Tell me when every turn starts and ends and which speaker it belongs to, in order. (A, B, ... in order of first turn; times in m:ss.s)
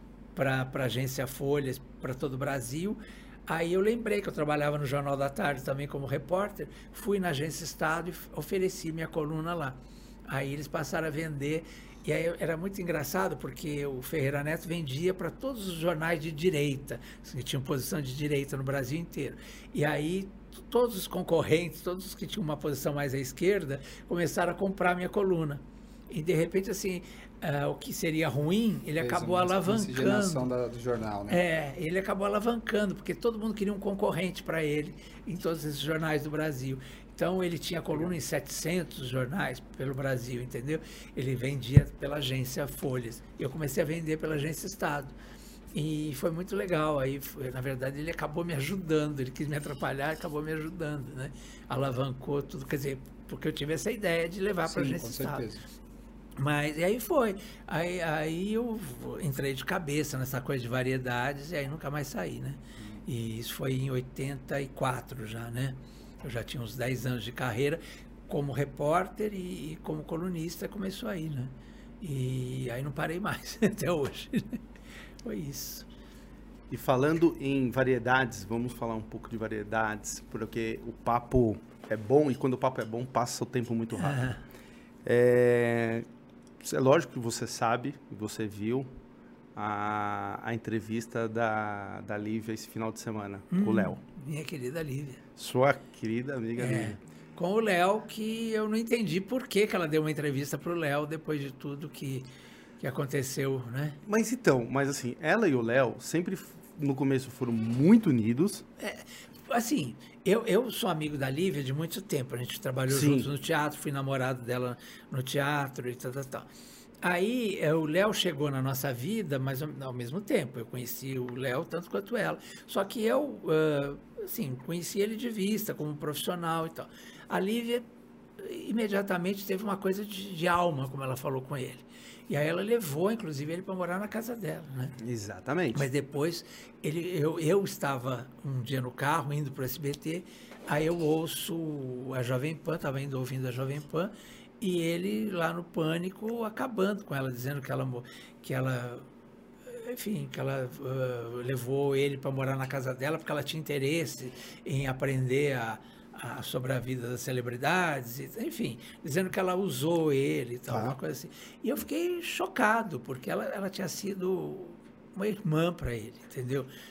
0:00.3-0:30.5 A
0:29.0-0:31.4 B
0:31.3-0:45.1 A
0:45.7-0:55.5 A
0:54.6-0:55.6 B
0:56.4-1:14.6 A
1:15.2-1:15.9 A
1:16.7-1:24.3 C
1:23.9-1:24.4 A
1:25.0-1:26.0 C
1:26.6-1:28.9 C
1:29.6-1:34.0 C
1:33.5-1:35.2 A
1:35.4-1:37.0 C
1:36.6-1:42.3 A
1:42.8-1:44.0 A
1:44.0-1:48.6 C
1:48.8-1:56.5 A
1:52.9-1:53.3 C
1:57.0-2:07.8 A
2:08.4-2:15.0 A
2:15.0-2:15.9 C
2:15.7-2:29.1 A
2:29.7-2:46.7 A
2:40.7-2:41.0 C